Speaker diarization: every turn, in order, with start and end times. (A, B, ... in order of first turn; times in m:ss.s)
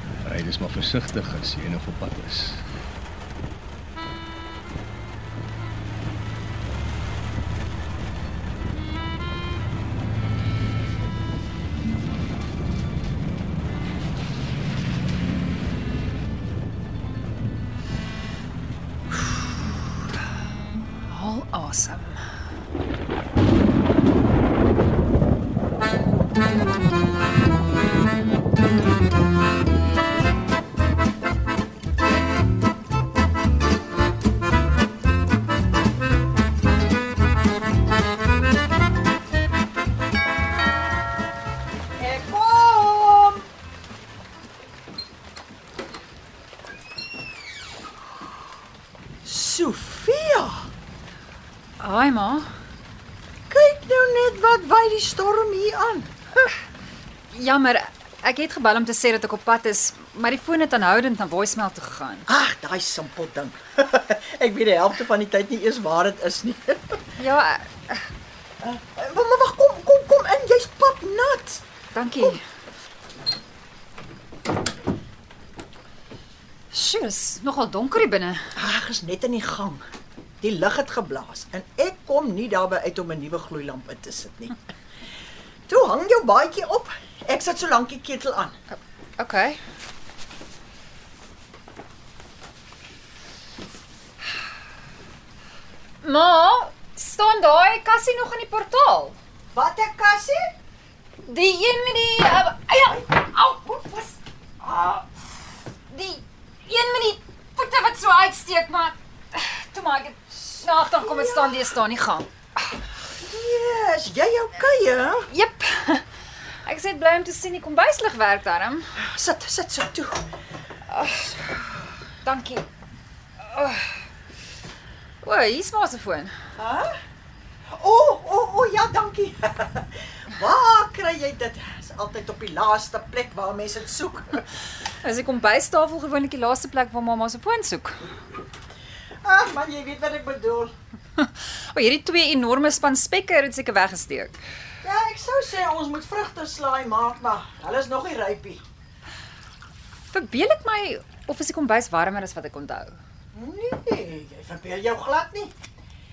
0:00.2-0:02.6 A
0:21.1-0:22.2 B
0:42.0-0:43.4 C
0:49.2-0:50.7 C
0:51.8-0:52.5 B
0:53.5-0:56.5 C
0:57.3-1:02.3 B
1:02.3-1:07.0 C
1:07.2-1:08.1 B
1:08.6-1:11.6 C
1:11.9-1:12.4 B
1:16.7-1:18.5 B
1:18.6-1:19.8 C
1:20.4-1:24.6 C
1:25.7-1:28.6 C
1:28.7-1:29.6 B
1:36.0-1:39.2 B
1:39.5-1:40.5 C
1:41.2-1:44.2 B
1:44.6-1:45.1 C
1:45.9-1:52.3 B
1:50.9-1:51.5 C
1:53.2-1:55.3 C
1:55.3-1:56.0 B
1:56.6-1:58.9 B
1:59.0-2:00.2 C
2:00.9-2:01.4 B
2:02.2-2:02.6 B
2:03.4-2:03.9 B
2:05.2-2:06.3 B
2:06.6-2:07.0 C
2:07.7-2:14.4 C
2:15.0-2:18.0 B
2:19.2-2:20.7 C
2:21.2-2:24.4 B
2:24.8-2:28.6 C
2:30.1-2:33.0 B
2:33.3-2:35.5 C